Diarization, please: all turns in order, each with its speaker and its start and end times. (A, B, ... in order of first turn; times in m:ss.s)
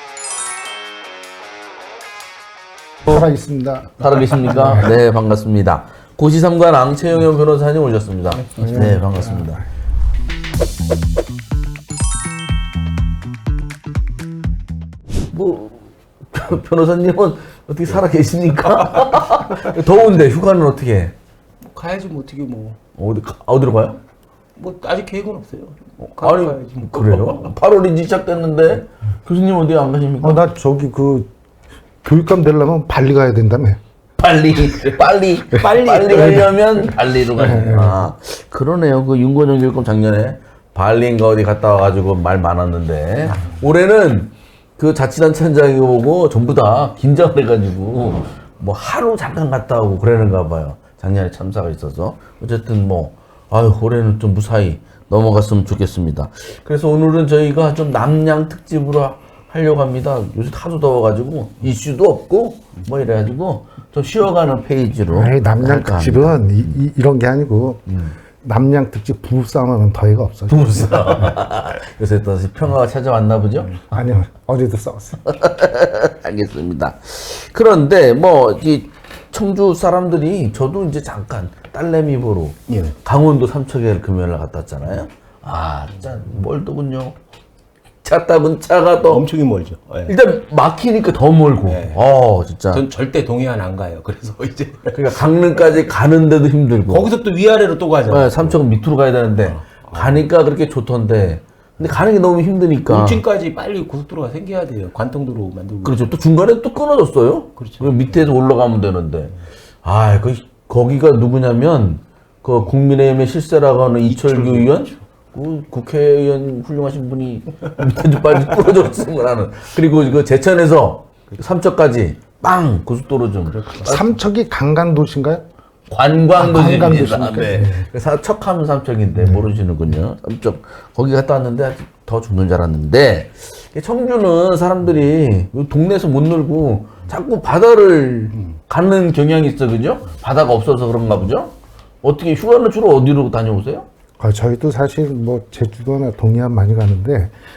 0:03.0-0:04.9 A
0:04.0-0:09.6 B
0:08.5-0:09.6 A
0:15.3-0:21.1 B
0:21.7-0:22.8 C
0:23.0-0:24.0 B
0:24.6-0:27.5 C
0:26.2-0:30.4 B
0:30.2-0:31.3 A
0:32.0-0:33.8 A
0:34.2-1:06.7 B
0:35.5-0:36.5 C
0:36.2-0:36.5 A
0:37.4-0:38.1 A
1:05.1-1:07.8 A
1:07.9-1:08.1 B
1:08.4-1:11.4 A
1:10.5-1:13.7 B
1:13.8-1:15.2 A
1:15.2-1:27.1 B
1:22.7-1:22.9 C
1:28.0-1:29.2 B
1:29.1-1:30.1 C
1:30.1-1:32.8 B
1:31.6-1:32.0 C
1:32.7-1:35.2 C
1:34.9-1:37.1 B
1:36.9-1:38.6 C
1:38.1-1:43.2 B
1:39.5-1:40.2 C
1:42.9-1:46.0 C
1:45.8-1:49.3 B
1:47.6-1:48.0 C
1:49.8-2:03.7 B
1:54.1-1:55.0 C
2:03.5-2:04.1 C
2:03.8-2:05.4 A
2:05.9-2:21.5 B
2:06.4-2:07.8 A
2:09.2-2:09.4 A
2:22.0-2:23.8 B
2:24.2-2:27.3 A